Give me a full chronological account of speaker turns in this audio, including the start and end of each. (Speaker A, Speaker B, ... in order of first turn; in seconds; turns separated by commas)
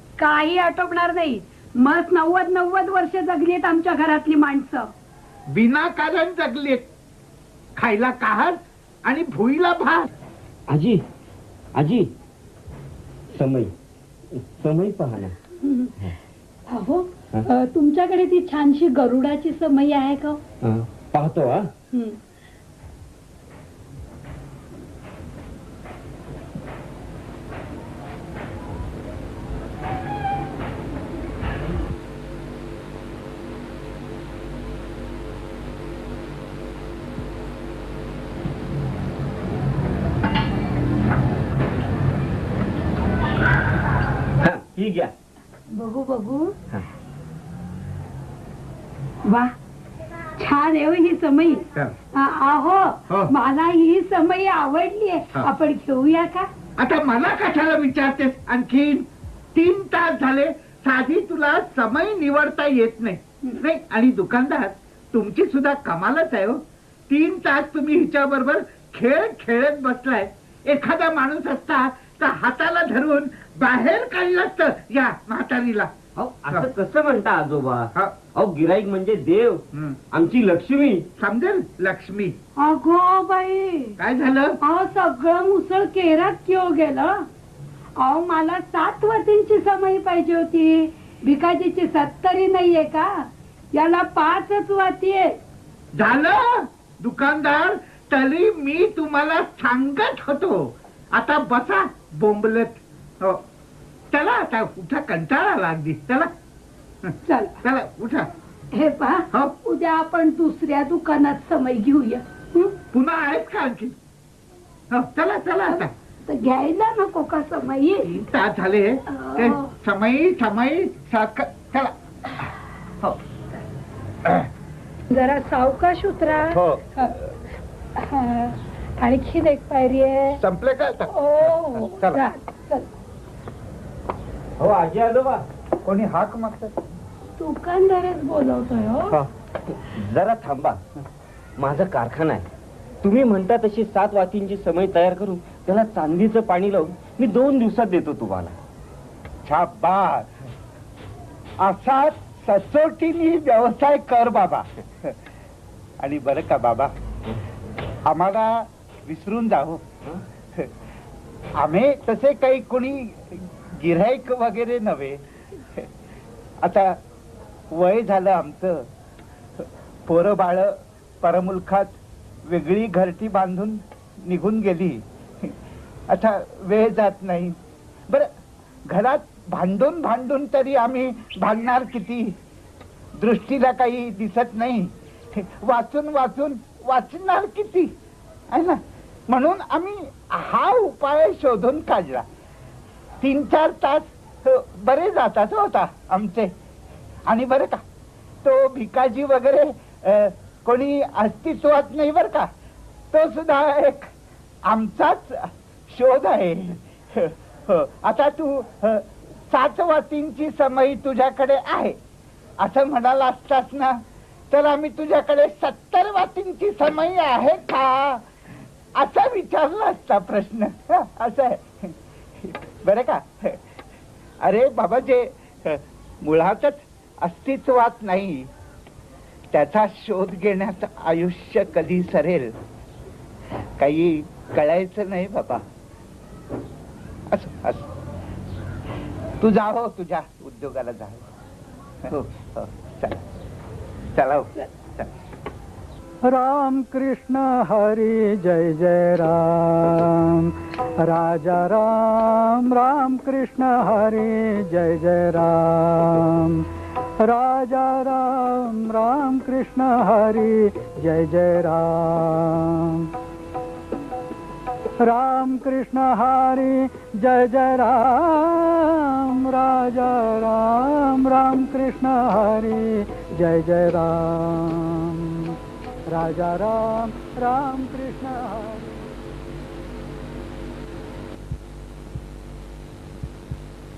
Speaker A: 0.2-4.9, Speaker B: 5.5-6.8, Speaker B: 7.8-10.1, Speaker C: 10.7-11.0, Speaker C: 11.8-12.1, Speaker C: 13.3-13.7, Speaker C: 14.6-15.4, Speaker A: 15.6-15.9, Speaker A: 16.7-20.4, Speaker C: 20.6-21.7, Speaker A: 21.9-22.2, Speaker C: 44.4-45.1, Speaker A: 45.7-46.5, Speaker A: 49.3-49.5, Speaker A: 50.4-56.5, Speaker B: 56.8-75.9, Speaker C: 76.2-81.0, Speaker B: 79.7-80.0, Speaker B: 81.2-82.4, Speaker A: 82.6-84.0, Speaker B: 84.0-84.6, Speaker A: 84.6-87.2, Speaker A: 88.0-95.4, Speaker B: 96.0-103.4, Speaker B: 104.1-106.3, Speaker B: 107.0-108.3, Speaker A: 107.3-107.5, Speaker A: 108.7-112.8, Speaker B: 112.9-114.0, Speaker B: 114.9-115.9, Speaker A: 115.7-118.2, Speaker B: 118.1-122.5, Speaker A: 119.1-119.7, Speaker A: 125.1-127.2, Speaker B: 126.5-126.8, Speaker A: 128.0-130.4, Speaker B: 130.4-132.2, Speaker A: 131.1-132.9, Speaker C: 134.6-135.4, Speaker B: 135.8-136.8, Speaker A: 137.4-139.2, Speaker C: 139.9-140.8, Speaker C: 141.6-142.5, Speaker C: 143.0-148.6, Speaker B: 149.5-150.3, Speaker B: 151.6-155.1, Speaker B: 156.0-156.9, Speaker B: 158.1-159.8, Speaker B: 161.6-165.2, Speaker B: 166.6-167.0, Speaker B: 167.7-168.9, Speaker B: 170.1-172.0, Speaker B: 172.5-175.5, Speaker B: 176.1-177.6, Speaker B: 178.9-182.4, Speaker B: 183.2-187.9, Speaker B: 188.5-192.3, Speaker B: 193.2-196.5, Speaker B: 197.3-197.8, Speaker B: 198.4-202.5, Speaker B: 203.1-204.1, Speaker B: 204.7-212.0, Speaker B: 212.6-218.2, Speaker B: 219.0-223.6, Speaker B: 224.4-228.5, Speaker B: 229.5-232.5, Speaker B: 233.8-235.6, Speaker B: 237.3-237.9, Speaker B: 239.4-241.2, Speaker B: 242.1-243.2, Speaker B: 244.2-245.1, Speaker D: 246.2-256.6, Speaker D: 257.2-263.1, Speaker D: 265.0-275.6, Speaker D: 276.1-278.9